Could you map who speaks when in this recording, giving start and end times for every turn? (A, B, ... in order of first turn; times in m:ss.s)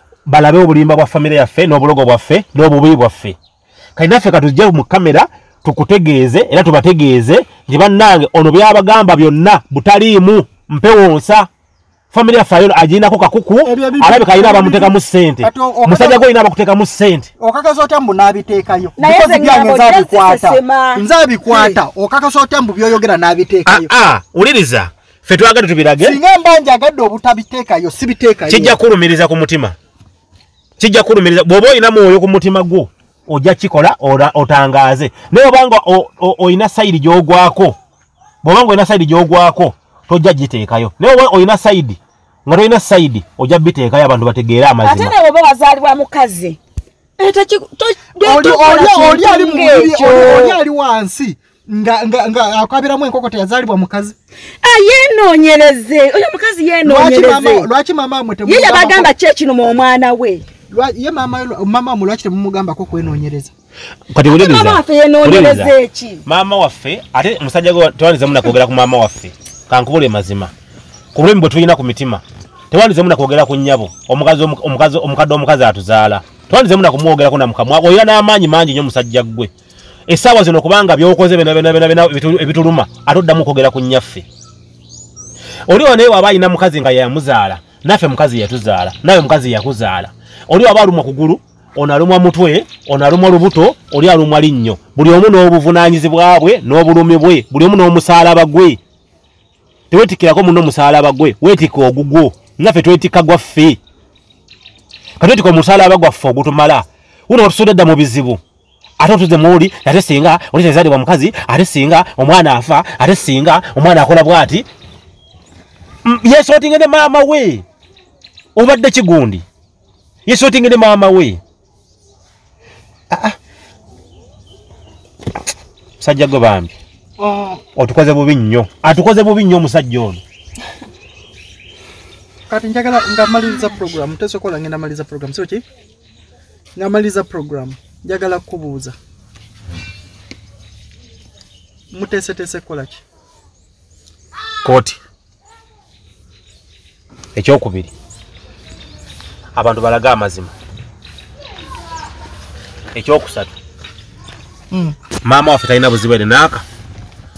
0:00.3-0:03.4 A
0:04.0-0:11.5 A
0:12.1-0:17.3 A
0:13.6-0:16.3 B
0:17.4-0:23.9 B
0:19.0-0:21.8 C
0:23.7-0:26.2 A
0:26.0-0:28.8 B
0:28.5-0:29.8 A
0:30.8-0:37.8 A
0:38.4-0:45.1 A
0:44.8-0:46.6 C
0:47.2-0:50.6 C
0:48.2-0:54.2 B
0:54.6-0:57.7 C
0:56.8-0:59.1 B
0:58.5-1:00.4 C
1:00.7-1:03.5 B
1:04.1-1:05.7 A
1:04.3-1:06.2 C
1:06.3-1:10.5 A
1:11.1-1:19.5 A
1:20.1-1:24.2 A
1:25.7-1:38.8 A
1:39.9-1:43.8 A
1:45.2-1:48.4 A
1:49.0-1:54.7 A
1:56.0-1:57.6 A
1:58.6-1:59.4 A
2:00.3-2:01.4 A
2:06.0-2:06.7 A
2:07.2-2:07.6 B
2:07.8-2:10.2 A
2:12.5-2:15.6 B
2:16.8-2:19.0 B
2:21.9-2:23.0 B
2:24.6-2:25.0 A
2:27.4-2:27.9 A
2:29.6-2:30.5 A
2:32.9-2:33.6 A
2:35.2-2:36.6 A